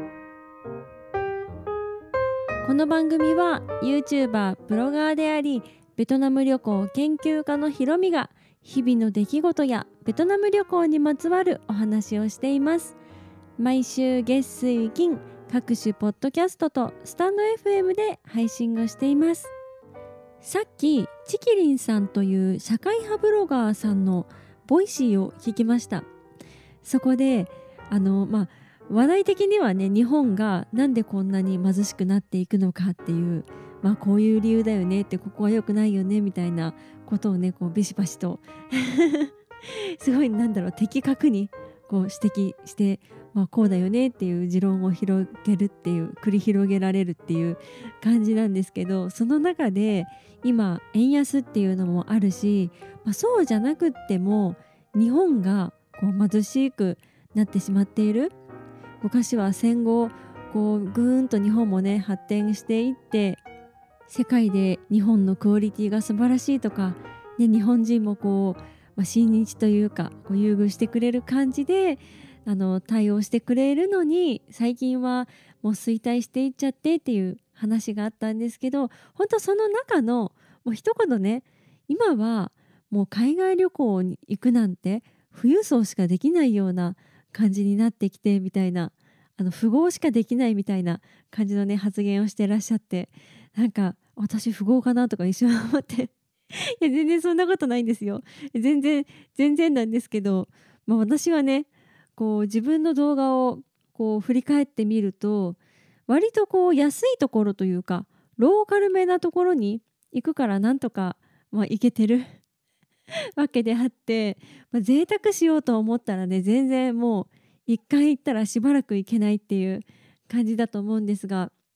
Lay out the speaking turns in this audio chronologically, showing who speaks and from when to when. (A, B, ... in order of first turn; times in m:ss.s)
0:02.6-0:13.0 A
0:13.6-0:19.5 A
0:20.4-0:26.1 A
0:26.8-0:58.3 A
0:59.0-1:03.4 A
1:04.1-1:36.1 A
1:36.8-1:52.3 A
1:53.4-2:01.5 A